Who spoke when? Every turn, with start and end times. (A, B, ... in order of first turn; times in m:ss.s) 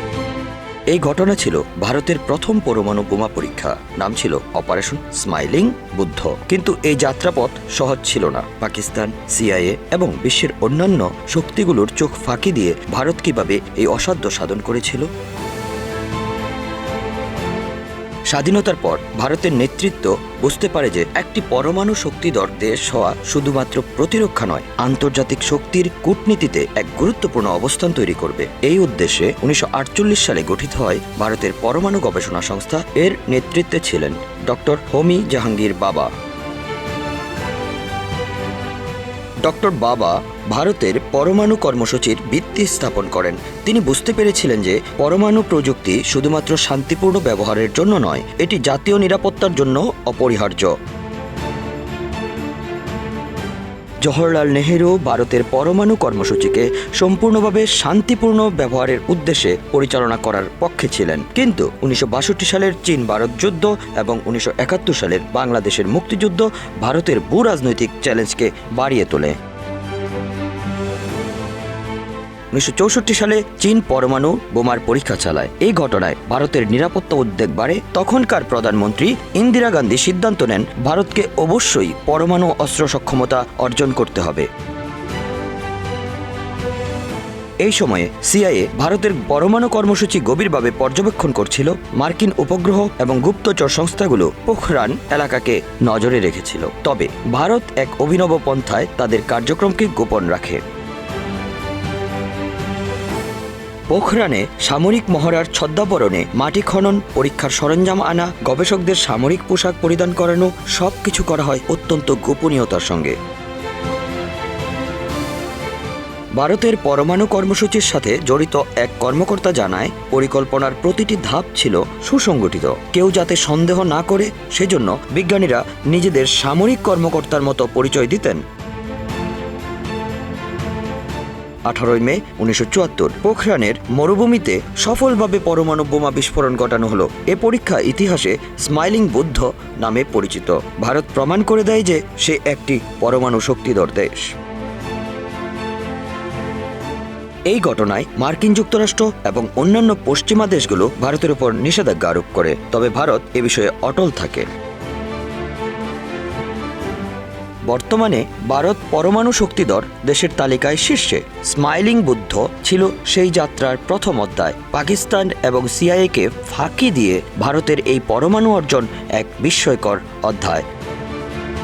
0:00.9-0:15.1 A
0:18.3-0:36.1 A
0:39.4-0:50.7 A
0:54.0-1:09.4 A
1:12.5-1:24.5 A
1:27.6-1:40.6 A
1:43.9-1:53.2 A
1:56.4-2:08.4 A
2:11.7-2:24.3 A
2:27.5-2:34.5 A
2:37.7-2:50.6 A